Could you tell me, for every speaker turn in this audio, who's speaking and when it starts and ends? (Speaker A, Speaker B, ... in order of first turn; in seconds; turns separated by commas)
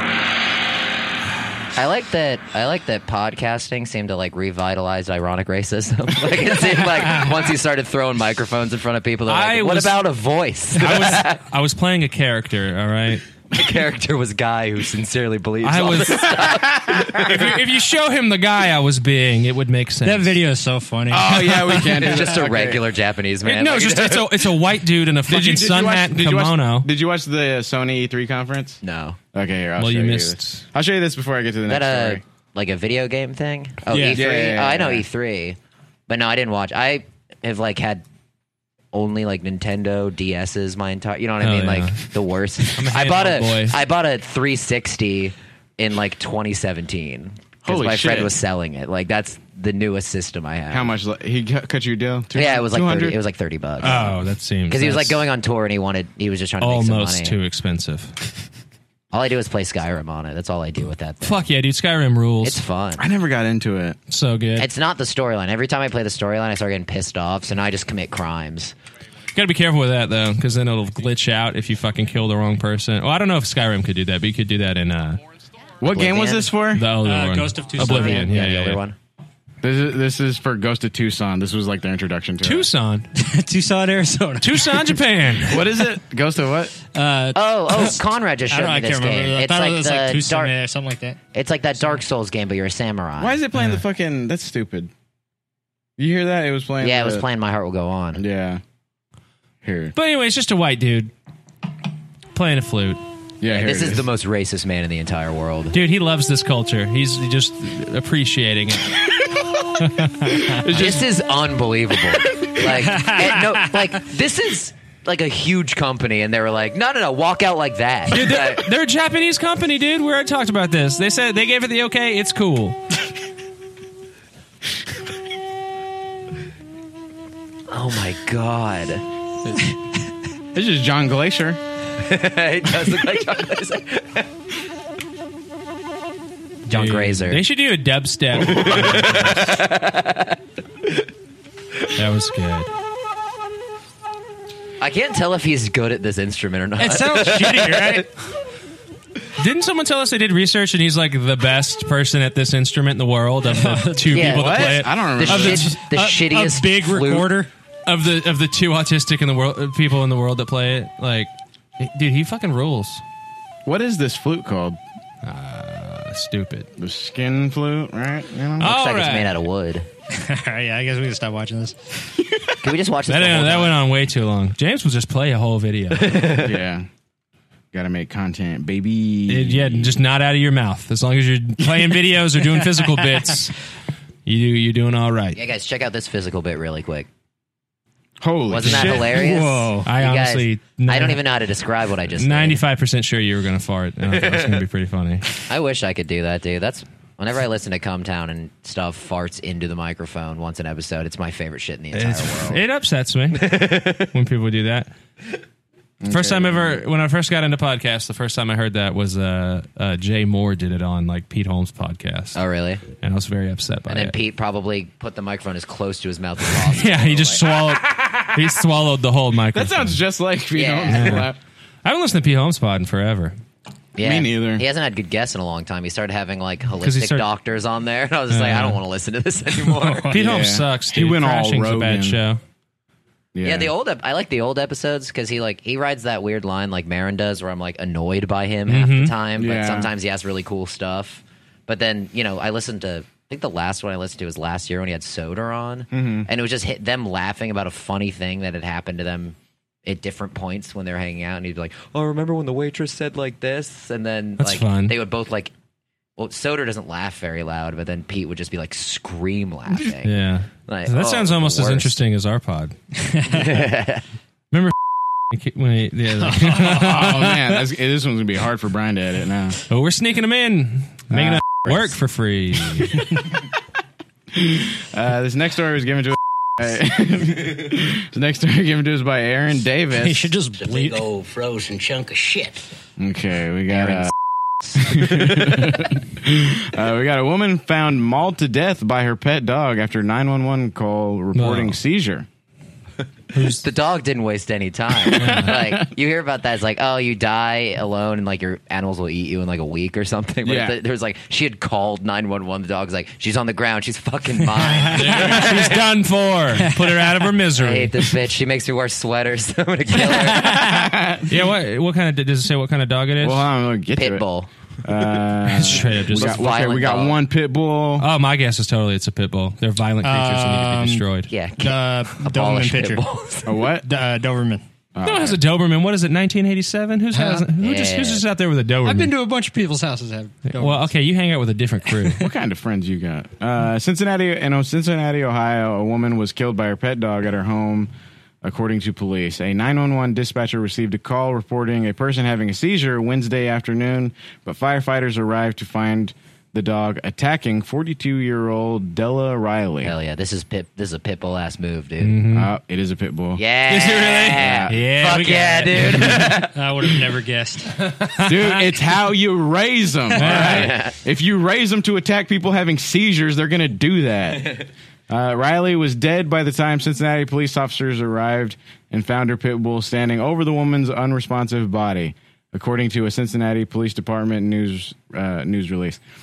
Speaker A: 1.7-11.4, Speaker B: 9.3-10.1, Speaker B: 10.8-13.2, Speaker A: 13.5-17.6, Speaker B: 15.6-16.5, Speaker B: 17.1-20.4, Speaker C: 20.0-21.6, Speaker D: 21.1-22.8, Speaker A: 21.6-24.5, Speaker B: 23.4-26.9, Speaker D: 25.3-28.8, Speaker A: 28.8-29.2, Speaker D: 29.3-32.2, Speaker B: 29.8-30.6, Speaker A: 31.7-38.0, Speaker B: 33.9-34.2, Speaker D: 34.0-35.0, Speaker A: 38.9-50.9, Speaker B: 41.4-42.0, Speaker B: 42.7-43.8, Speaker D: 47.6-48.3, Speaker D: 50.7-53.2, Speaker A: 52.3-54.2, Speaker B: 53.8-55.2, Speaker A: 54.7-57.4, Speaker B: 56.6-58.1, Speaker A: 59.1-61.4, Speaker B: 61.2-62.6, Speaker A: 62.4-63.0, Speaker D: 63.0-64.0, Speaker B: 64.1-64.7, Speaker A: 64.5-68.7, Speaker B: 69.3-75.2, Speaker D: 75.8-76.9, Speaker A: 75.8-76.5, Speaker B: 76.7-78.8, Speaker C: 76.9-78.3, Speaker A: 77.8-79.0, Speaker D: 79.6-82.7, Speaker B: 82.4-83.1, Speaker C: 83.2-85.0, Speaker B: 84.4-85.7, Speaker D: 85.5-86.8, Speaker C: 86.9-91.2, Speaker A: 87.3-90.5, Speaker A: 91.3-93.4, Speaker D: 93.2-94.9, Speaker B: 93.5-93.8, Speaker D: 96.0-97.2, Speaker A: 96.8-98.2, Speaker D: 98.2-98.6, Speaker D: 99.6-99.9, Speaker B: 99.9-101.1, Speaker B: 102.3-103.0, Speaker D: 103.4-104.1, Speaker A: 103.5-105.8, Speaker B: 105.7-109.0, Speaker B: 109.8-111.0, Speaker A: 110.7-118.7, Speaker C: 112.9-113.2, Speaker B: 118.1-122.8, Speaker A: 127.7-129.0, Speaker D: 130.5-131.6, Speaker A: 132.0-134.3, Speaker A: 136.7-137.4, Speaker B: 136.7-139.6, Speaker A: 138.4-140.4, Speaker B: 141.9-142.7, Speaker A: 144.8-148.1, Speaker C: 146.8-148.1, Speaker B: 149.4-156.0, Speaker C: 153.5-154.2, Speaker A: 154.1-157.3, Speaker D: 154.2-155.8, Speaker C: 155.9-157.5, Speaker B: 157.8-163.0, Speaker D: 163.7-164.8, Speaker B: 165.2-166.7, Speaker D: 166.8-168.7, Speaker B: 168.6-169.3, Speaker A: 168.6-169.9, Speaker C: 170.1-171.8, Speaker A: 172.6-173.8, Speaker B: 173.1-176.4, Speaker D: 176.3-176.9, Speaker D: 177.7-180.0, Speaker B: 179.3-183.6, Speaker B: 184.2-185.4, Speaker A: 185.3-187.1, Speaker D: 188.2-189.7, Speaker A: 188.5-192.6, Speaker B: 188.6-191.2, Speaker C: 189.5-189.7, Speaker B: 192.1-195.3, Speaker A: 195.5-202.6, Speaker B: 201.9-204.9, Speaker D: 206.0-206.8, Speaker B: 206.1-212.4, Speaker A: 212.3-212.8, Speaker B: 213.0-214.1, Speaker A: 213.9-217.6, Speaker B: 216.5-220.0, Speaker D: 219.5-221.4, Speaker A: 220.5-221.2, Speaker B: 220.9-221.3, Speaker B: 221.8-223.4, Speaker A: 223.9-230.2, Speaker D: 224.0-224.6, Speaker B: 226.8-227.2, Speaker B: 228.3-228.8, Speaker C: 229.9-230.1, Speaker B: 230.1-232.4, Speaker D: 230.1-232.2, Speaker D: 233.3-233.7, Speaker A: 233.4-255.5, Speaker B: 238.7-239.1, Speaker D: 239.3-239.9, Speaker D: 245.9-246.3, Speaker B: 254.4-254.9, Speaker A: 256.2-262.0, Speaker B: 260.0-262.7, Speaker C: 263.1-263.4, Speaker A: 263.3-264.0, Speaker B: 265.3-267.6, Speaker C: 266.2-266.7, Speaker D: 266.5-269.6, Speaker B: 269.7-273.0, Speaker D: 271.1-271.4, Speaker D: 274.3-280.3, Speaker C: 279.9-281.0, Speaker E: 280.6-282.6, Speaker D: 283.0-284.1, Speaker A: 283.7-284.1, Speaker D: 284.8-292.2, Speaker A: 284.9-285.6, Speaker B: 291.3-291.8, Speaker B: 293.3-293.6, Speaker A: 293.4-305.9, Speaker D: 295.1-295.8, Speaker B: 295.1-295.7, Speaker D: 300.4-300.8, Speaker D: 304.9-305.8, Speaker B: 304.9-308.1, Speaker A: 307.5-310.7, Speaker D: 310.2-311.5, Speaker C: 310.3-310.9, Speaker B: 311.3-313.4, Speaker D: 313.2-314.2, Speaker A: 313.9-314.5, Speaker D: 314.8-318.1, Speaker B: 315.4-316.4, Speaker A: 316.1-317.2, Speaker B: 318.0-321.3, Speaker C: 320.0-321.0, Speaker A: 321.3-323.6, Speaker C: 321.6-323.0, Speaker D: 323.4-323.9, Speaker C: 323.8-324.6, Speaker D: 324.9-325.4, Speaker B: 325.0-329.1, Speaker C: 327.1-327.5, Speaker A: 327.6-328.2, Speaker C: 328.8-330.9, Speaker B: 330.5-332.2, Speaker D: 332.2-337.9, Speaker D: 338.4-349.9, Speaker A: 349.8-352.2, Speaker B: 352.0-352.5, Speaker D: 352.3-354.8, Speaker A: 353.4-356.4, Speaker B: 353.7-356.4, Speaker D: 356.0-356.5, Speaker C: 356.5-357.8, Speaker B: 358.1-358.6, Speaker D: 358.2-376.0, Speaker B: 360.2-360.7, Speaker A: 360.3-360.9